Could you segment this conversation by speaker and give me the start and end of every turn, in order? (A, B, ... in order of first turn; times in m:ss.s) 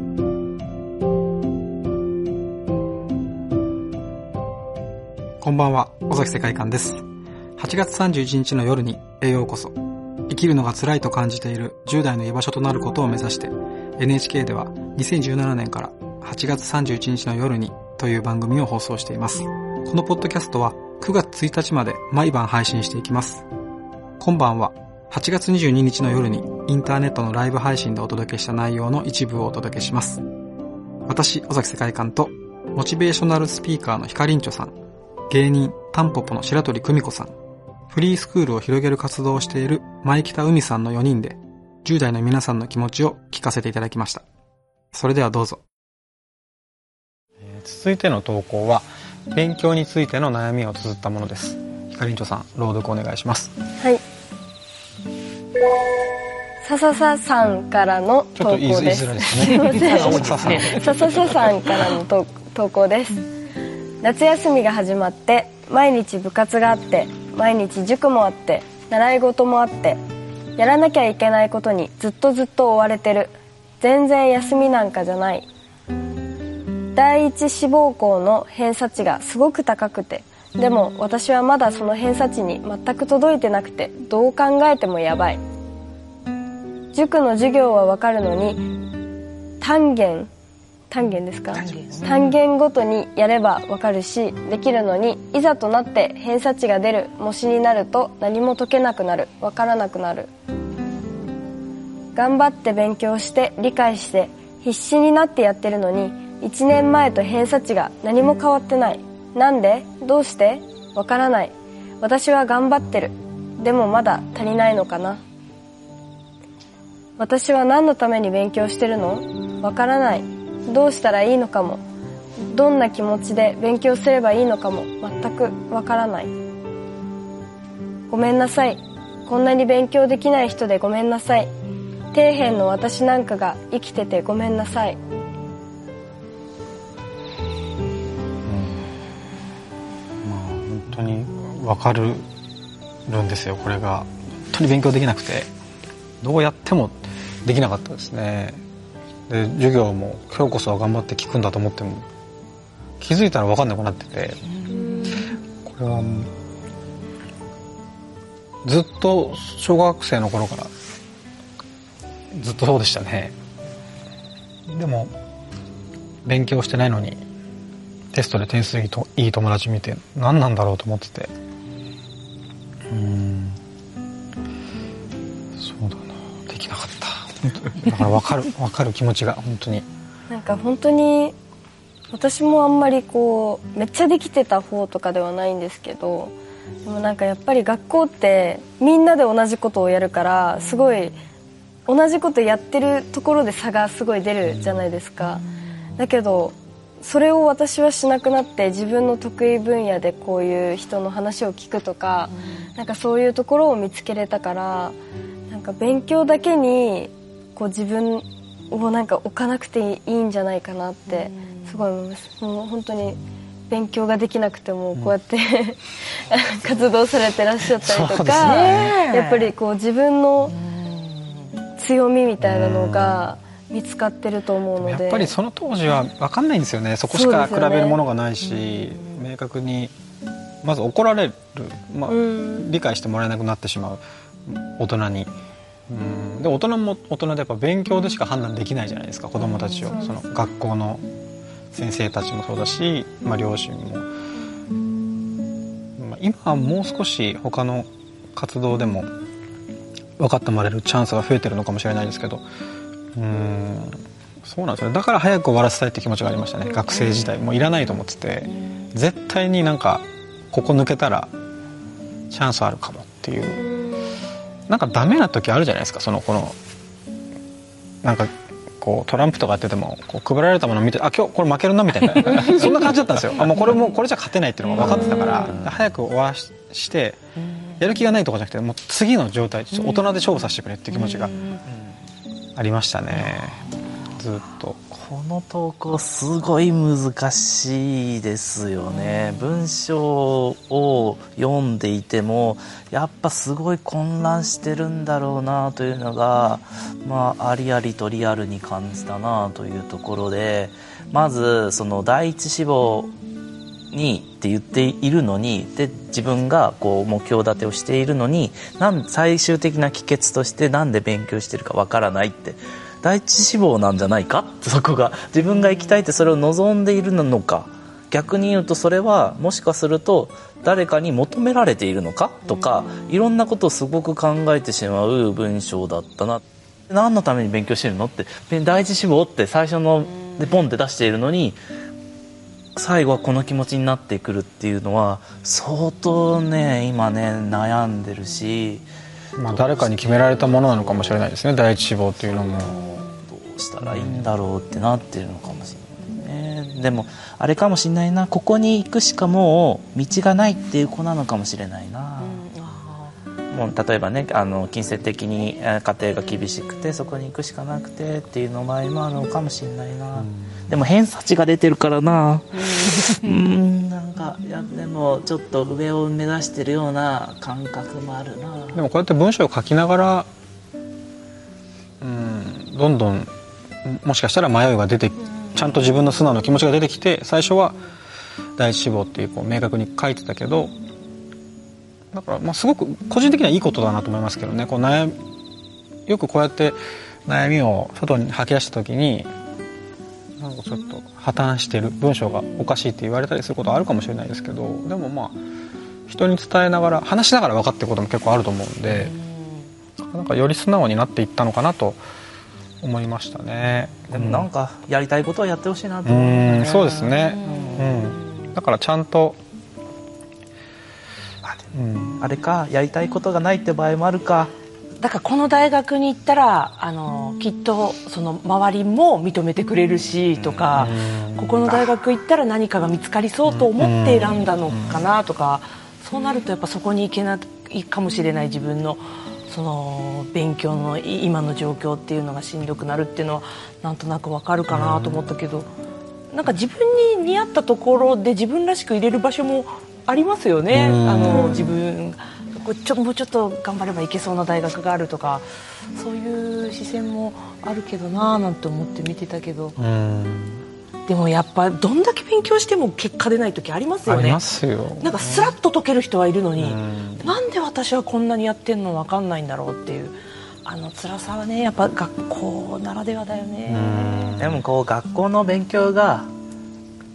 0:05.4-0:07.0 A
0:07.6-0:09.8 A
0:10.3-0:23.4 A
0:24.2-0:30.2 A
0:31.1-0:34.7 A
0:35.3-0:37.3 A
0:37.9-0:44.2 A
0:44.9-0:45.6 A
0:47.4-0:53.5 A
0:56.6-1:03.2 B
0:58.4-1:01.2 A
0:59.6-1:00.8 C
1:04.0-1:10.0 B
1:10.6-1:15.5 B
1:16.9-1:25.4 B
1:26.9-1:28.6 B
1:29.6-1:30.3 B
1:30.9-1:40.3 B
1:31.5-1:32.4 C
1:42.1-1:55.2 B
1:57.2-2:01.8 B
2:02.5-2:06.3 B
2:08.1-2:11.5 B
2:12.1-2:15.0 B
2:18.4-2:18.8 A
2:20.2-2:22.2 A
2:23.1-2:25.5 A
2:26.2-2:28.6 A
2:29.3-2:32.0 A
2:33.0-2:34.4 A
2:34.8-2:35.2 B
2:35.6-2:36.3 A
2:38.6-2:40.7 A
2:42.3-2:43.3 A
2:44.7-2:45.1 A
2:46.2-2:47.2 A
2:48.1-2:51.3 A
2:52.9-2:53.6 A
2:55.6-2:59.8 A
3:00.3-3:01.3 B
3:02.1-3:11.1 B
3:11.9-3:15.4 B
3:16.0-3:25.0 B
3:25.5-3:40.5 B
3:31.2-3:31.6 C
3:37.8-3:38.9 A
3:38.4-3:39.5 C
3:40.6-3:41.6 C
3:41.8-3:45.4 B
3:42.4-3:43.3 A
3:44.8-3:49.9 A
3:47.1-3:48.0 B
3:50.6-3:55.3 A
3:52.1-3:52.6 B
3:55.9-4:01.0 A
4:01.7-4:04.0 A
4:06.0-4:09.1 A
4:10.2-4:12.4 A
4:13.1-4:21.3 A
4:22.3-4:23.7 A
4:23.6-4:24.1 B
4:24.7-4:26.6 A
4:28.0-4:37.2 A
4:34.7-4:35.6 C
4:37.8-4:41.4 A
4:40.9-4:41.6 C
4:42.6-4:44.8 A
4:44.9-5:03.1 D
5:03.9-5:31.6 D
5:32.8-5:38.9 D
5:39.4-5:42.7 A
5:39.4-5:41.2 D
5:42.3-5:52.4 D
5:42.6-5:42.9 C
5:43.9-5:44.2 A
5:52.2-5:53.2 C
5:53.5-6:08.8 D
6:00.2-6:00.6 A
6:08.7-6:10.3 A
6:12.0-6:13.3 A
6:13.8-6:17.8 A
6:18.6-6:20.7 A
6:22.1-6:25.2 A
6:26.1-6:29.3 A
6:30.4-6:35.4 A
6:36.1-6:39.1 A
6:38.9-6:39.7 C
6:40.0-6:42.0 A
6:42.8-6:44.5 A
6:44.1-6:46.9 D
6:46.0-6:49.4 A
6:46.7-6:48.5 C
6:47.4-6:47.9 D
6:51.4-6:54.5 D
6:51.7-6:52.2 A
6:55.0-7:15.7 C
7:00.3-7:00.9 D
7:00.8-7:01.6 A
7:01.7-7:01.9 D
7:03.5-7:05.0 A
7:14.7-7:15.3 A
7:16.3-7:29.8 C
7:20.7-7:21.6 A
7:29.8-7:30.6 A
7:31.0-7:34.4 C
7:34.0-7:35.6 A
7:35.0-7:44.1 C
7:36.6-7:37.4 A
7:43.7-7:44.6 A
7:44.4-7:46.3 D